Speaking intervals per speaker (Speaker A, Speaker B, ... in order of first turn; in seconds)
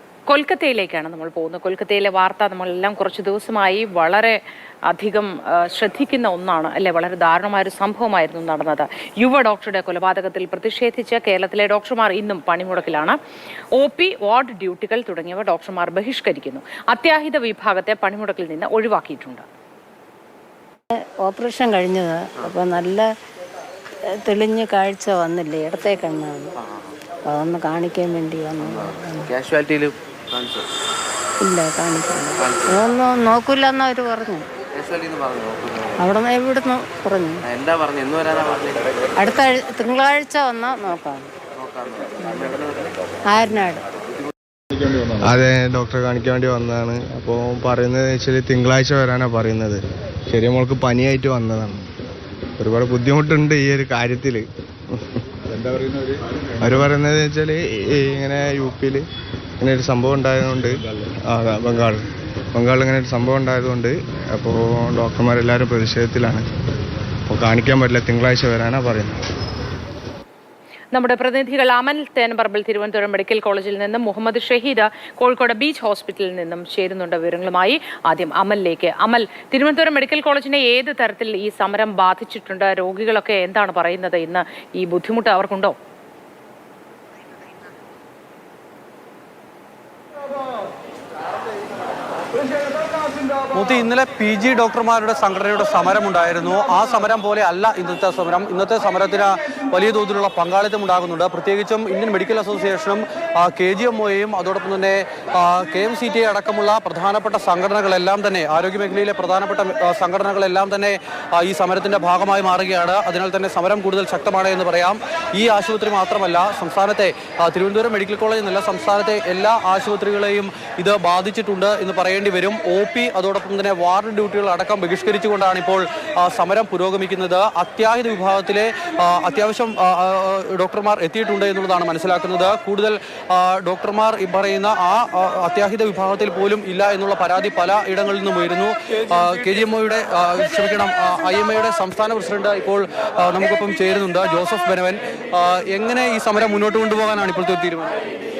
Speaker A: 0.3-13.2, 13.7-19.4, 70.9-85.7
Speaker B: 21.2-23.0, 24.2-26.5, 27.3-29.2, 31.4-34.4, 36.0-37.3, 39.2-41.2, 43.3-43.8
Speaker C: 28.8-30.6, 34.8-35.9, 37.5-38.8, 41.6-42.9
Speaker D: 45.2-51.8, 52.6-54.5, 56.6-59.0, 59.6-60.7, 61.3-62.0, 62.5-66.4, 67.3-69.2
Speaker E: 93.5-147.9